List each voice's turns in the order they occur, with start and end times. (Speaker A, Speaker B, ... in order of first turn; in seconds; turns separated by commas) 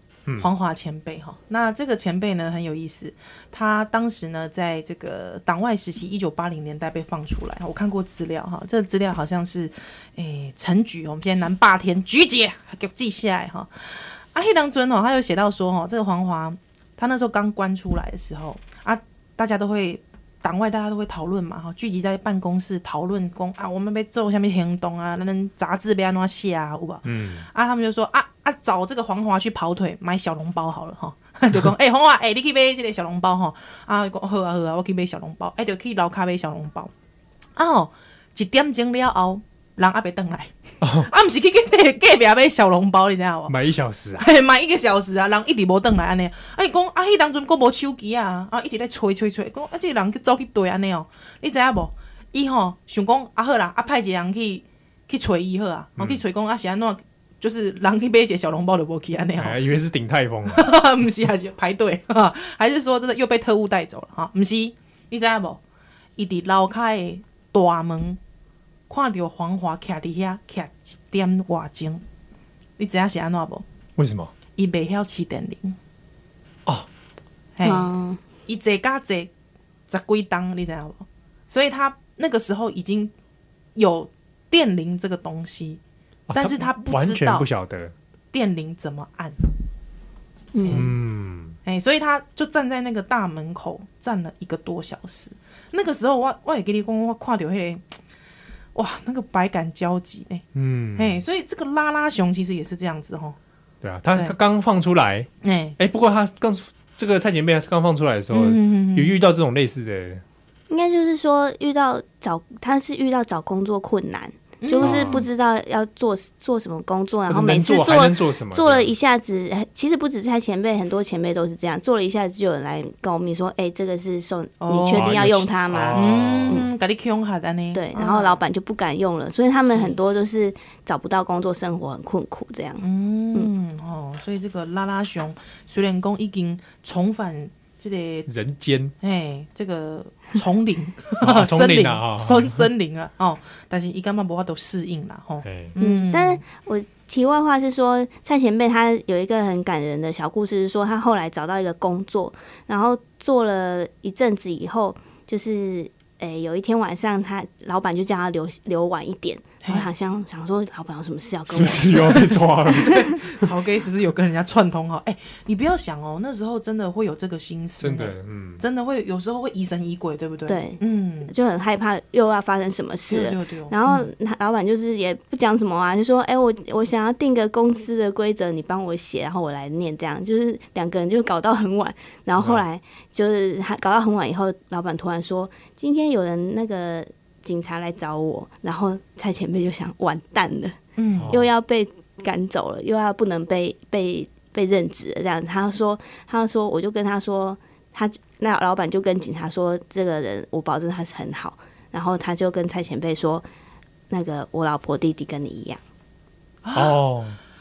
Speaker A: 0.4-36.9, Speaker B: 27.1-27.5, Speaker A: 37.6-43.6, Speaker B: 40.8-41.1, Speaker B: 43.5-44.3, Speaker A: 44.2-59.6, Speaker B: 56.0-56.2, Speaker B: 59.4-60.7, Speaker A: 60.5-65.6, Speaker A: 66.2-68.2, Speaker A: 68.9-72.0, Speaker A: 72.8-73.6, Speaker B: 74.0-74.3, Speaker A: 74.6-75.8, Speaker A: 77.6-77.9, Speaker C: 77.6-78.2, Speaker A: 78.5-79.3, Speaker A: 79.9-83.1, Speaker A: 83.8-85.8, Speaker B: 86.3-87.9, Speaker A: 86.3-87.5, Speaker A: 88.3-89.5, Speaker C: 90.5-90.8, Speaker A: 90.6-90.9, Speaker B: 90.7-91.6, Speaker A: 91.7-97.8, Speaker A: 98.8-103.4, Speaker B: 100.5-101.2, Speaker B: 103.8-110.2, Speaker A: 105.4-105.8, Speaker A: 108.3-109.2, Speaker C: 110.7-126.7, Speaker A: 114.6-115.2, Speaker B: 114.8-115.3, Speaker B: 117.3-118.9, Speaker A: 124.6-125.2, Speaker B: 124.9-126.7, Speaker A: 125.9-128.4, Speaker C: 127.7-133.5, Speaker A: 129.7-130.0, Speaker A: 132.8-138.3, Speaker B: 138.3-138.9, Speaker A: 139.0-146.4, Speaker B: 141.2-142.7, Speaker B: 145.4-145.7, Speaker C: 145.8-163.0, Speaker A: 159.6-159.9, Speaker B: 161.5-163.5, Speaker A: 161.9-171.3, Speaker B: 167.8-168.6, Speaker C: 170.5-203.4, Speaker A: 173.1-174.1, Speaker B: 182.4-182.6, Speaker A: 191.0-191.4, Speaker B: 191.2-191.5, Speaker C: 204.1-205.8, Speaker A: 206.6-207.0, Speaker B: 206.7-207.4